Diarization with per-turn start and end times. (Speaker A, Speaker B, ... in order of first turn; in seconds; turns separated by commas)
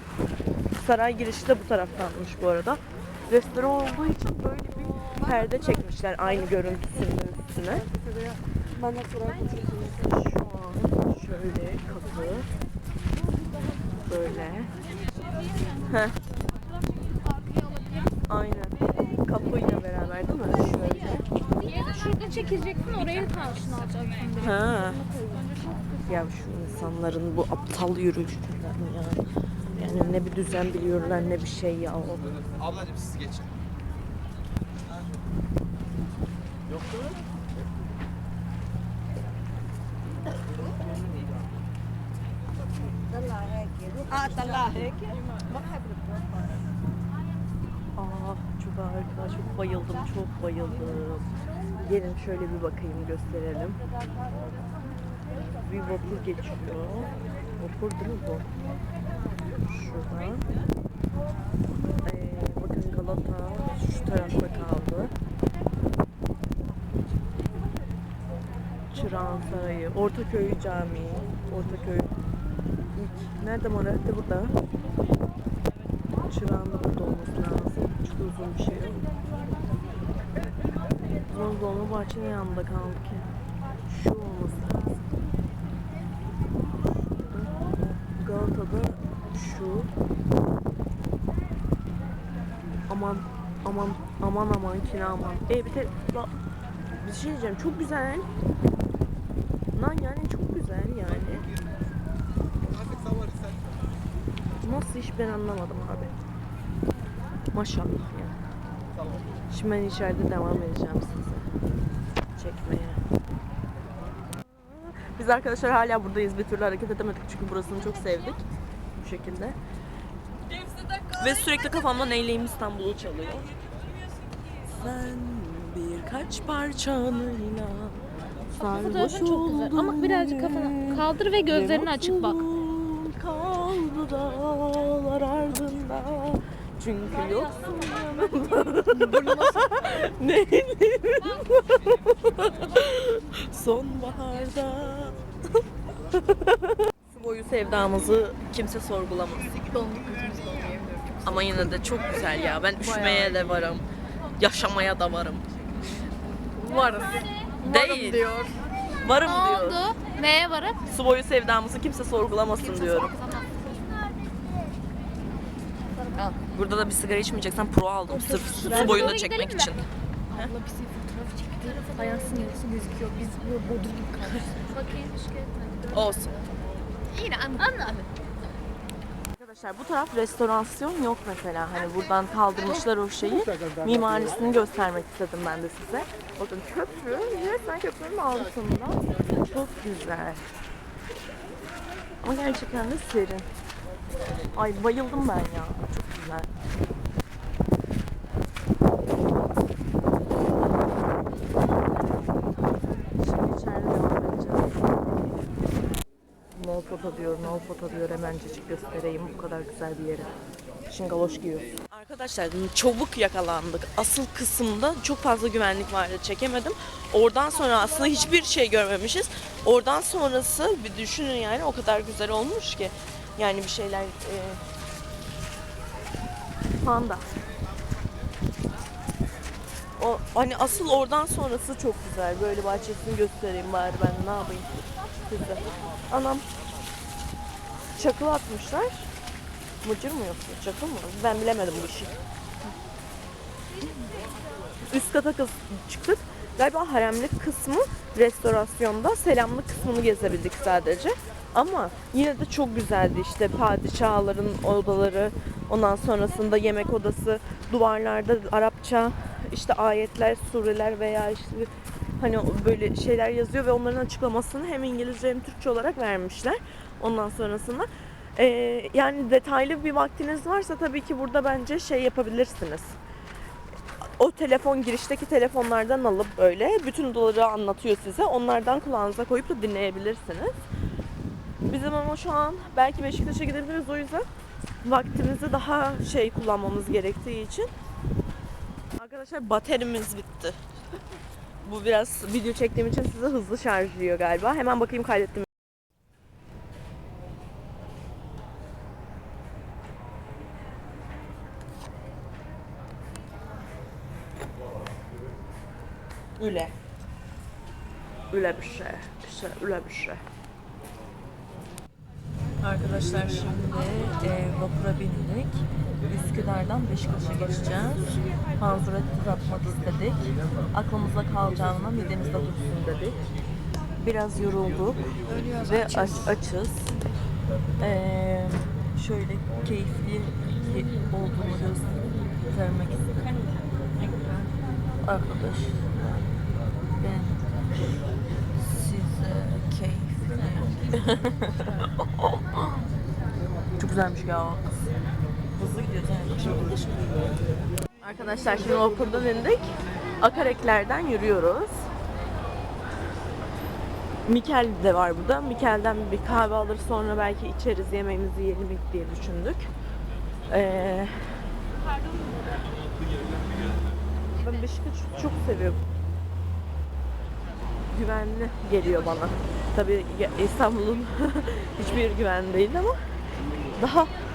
Speaker A: 0.7-7.9, Speaker A: 9.8-12.5, Speaker A: 14.0-14.7, Speaker A: 15.9-16.2, Speaker A: 18.3-21.3, Speaker B: 21.6-25.5, Speaker A: 24.4-25.0, Speaker A: 26.1-29.2, Speaker A: 29.8-32.2, Speaker C: 44.0-45.2, Speaker A: 48.0-51.3, Speaker A: 51.8-53.8, Speaker A: 55.6-58.5, Speaker A: 59.7-60.5, Speaker A: 62.0-65.1, Speaker A: 68.9-72.1, Speaker A: 73.0-74.6, Speaker A: 76.3-79.1, Speaker A: 81.3-83.3, Speaker A: 83.9-85.0, Speaker A: 87.2-89.9, Speaker A: 92.9-96.3, Speaker A: 97.0-98.3, Speaker A: 99.8-101.5, Speaker A: 104.6-106.1, Speaker A: 107.5-108.4, Speaker A: 109.5-111.5, Speaker A: 112.4-113.0, Speaker A: 114.6-118.4, Speaker A: 119.0-119.6, Speaker A: 121.2-123.5, Speaker A: 124.7-128.0, Speaker A: 128.6-145.2, Speaker B: 128.6-132.4, Speaker C: 139.1-140.0, Speaker A: 146.1-149.5, Speaker C: 149.7-151.8, Speaker A: 151.2-153.8, Speaker C: 152.8-153.5, Speaker A: 154.4-155.4, Speaker C: 156.6-158.6, Speaker A: 157.6-158.2, Speaker A: 159.0-159.8, Speaker B: 159.2-160.8, Speaker A: 160.9-163.1, Speaker B: 162.6-163.8, Speaker A: 166.2-169.8, Speaker C: 168.1-169.2, Speaker B: 168.4-169.8, Speaker C: 170.3-174.7, Speaker B: 171.9-172.4, Speaker B: 174.6-176.2, Speaker A: 175.9-176.4, Speaker C: 177.1-178.1, Speaker A: 179.4-190.4, Speaker A: 192.2-193.5, Speaker A: 194.5-196.5, Speaker A: 203.2-205.3, Speaker A: 206.6-210.3, Speaker A: 210.9-224.6, Speaker A: 226.8-227.3, Speaker A: 230.0-234.7, Speaker A: 235.3-236.4, Speaker A: 238.0-239.1, Speaker A: 239.8-242.1, Speaker A: 244.9-273.0, Speaker A: 274.2-280.6, Speaker A: 281.7-284.2, Speaker A: 284.8-287.7, Speaker A: 289.0-290.6, Speaker A: 291.6-295.5, Speaker A: 306.4-306.7, Speaker A: 308.3-310.2, Speaker A: 312.6-318.0, Speaker A: 318.6-323.2, Speaker A: 324.0-325.0, Speaker C: 325.3-326.3, Speaker A: 325.6-326.9, Speaker A: 327.8-333.4, Speaker A: 334.0-334.5, Speaker A: 335.1-336.4, Speaker A: 337.0-337.4, Speaker A: 338.6-342.8, Speaker A: 343.8-344.9, Speaker A: 345.5-347.0, Speaker A: 348.0-349.7, Speaker A: 350.2-351.8, Speaker A: 354.3-359.7, Speaker A: 360.5-361.1, Speaker A: 364.4-365.8, Speaker A: 367.9-373.0, Speaker A: 373.8-374.1